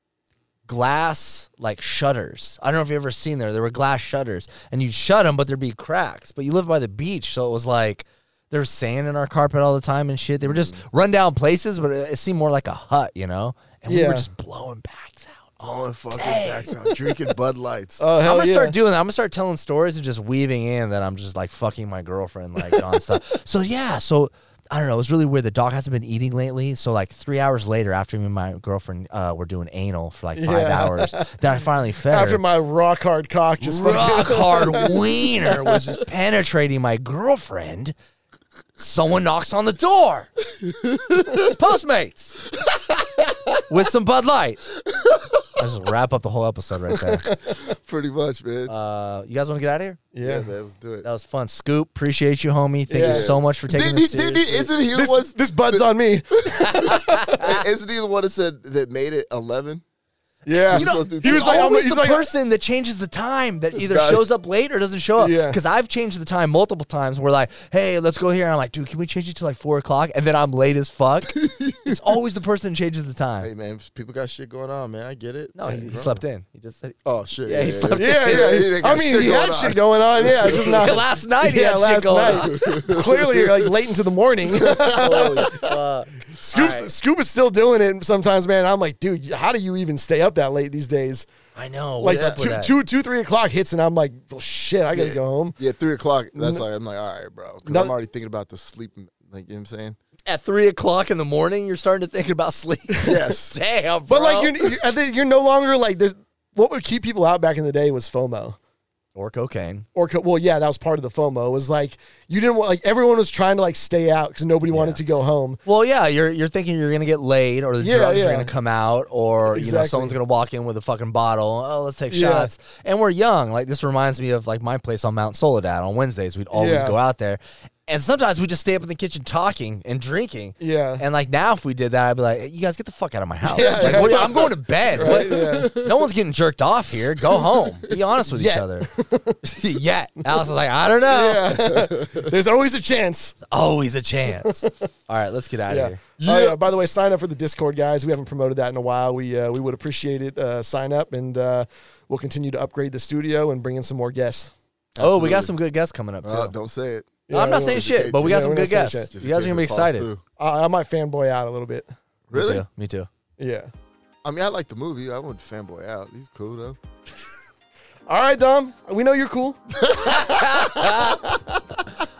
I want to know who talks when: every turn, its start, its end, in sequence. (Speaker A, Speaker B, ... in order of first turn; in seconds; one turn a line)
Speaker A: 0.7-17.3
Speaker B: 10.4-10.8
Speaker C: 13.9-14.3
Speaker B: 15.6-18.1
Speaker C: 18.0-18.8
Speaker A: 18.2-32.4
Speaker C: 30.4-31.4
Speaker C: 32.1-35.8
Speaker A: 33.6-37.9
Speaker A: 38.8-40.3
Speaker B: 40.6-41.4
Speaker A: 41.2-42.4
Speaker B: 42.6-43.6
Speaker A: 43.7-44.6
Speaker B: 44.9-45.3
Speaker A: 45.5-47.3
Speaker B: 47.5-48.7
Speaker A: 48.7-50.0
Speaker C: 50.1-50.5
Speaker B: 50.2-51.0
Speaker A: 51.0-54.7
Speaker C: 52.9-53.3
Speaker B: 53.0-55.8
Speaker C: 54.9-57.5
Speaker B: 56.5-59.8
Speaker A: 56.5-57.6
Speaker C: 60.5-62.3
Speaker A: 60.6-73.5
Speaker B: 60.7-61.7
Speaker B: 63.7-64.3
Speaker C: 65.2-65.6
Speaker B: 71.4-72.0
Speaker B: 73.4-76.2
Speaker A: 75.5-78.5
Speaker B: 77.0-80.9
Speaker C: 77.8-91.3
Speaker A: 80.5-82.5
Speaker B: 82.3-83.7
Speaker B: 84.5-85.6
Speaker A: 84.8-86.9
Speaker A: 91.5-92.8
Speaker C: 92.0-95.6
Speaker B: 92.0-92.4
Speaker B: 94.9-100.0
Speaker C: 96.3-96.6
Speaker C: 97.7-97.9
Speaker A: 100.3-104.7
Speaker B: 103.0-103.5
Speaker C: 104.1-108.6
Speaker A: 109.1-109.8
Speaker C: 109.9-115.6
Speaker A: 114.7-115.0
Speaker A: 115.6-138.9
Speaker C: 117.8-118.5
Speaker C: 119.5-120.2
Speaker C: 122.1-122.5
Speaker C: 126.5-127.0
Speaker C: 130.6-131.0
Speaker C: 133.4-135.7
Speaker B: 133.6-136.1
Speaker B: 137.2-137.9
Speaker C: 138.3-139.4
Speaker A: 139.4-141.7
Speaker C: 141.1-143.4
Speaker B: 141.5-142.3
Speaker A: 143.5-146.0
Speaker C: 144.4-144.7
Speaker C: 145.7-154.5
Speaker B: 146.2-146.6
Speaker B: 154.9-155.5
Speaker A: 155.0-156.5
Speaker B: 156.2-158.4
Speaker C: 157.3-159.1
Speaker A: 157.3-160.1
Speaker B: 159.1-160.2
Speaker C: 160.4-161.9
Speaker B: 162.3-162.6
Speaker A: 162.3-163.1
Speaker C: 163.4-163.7
Speaker B: 164.2-166.8
Speaker C: 168.1-169.6
Speaker B: 169.8-171.4
Speaker A: 169.9-171.2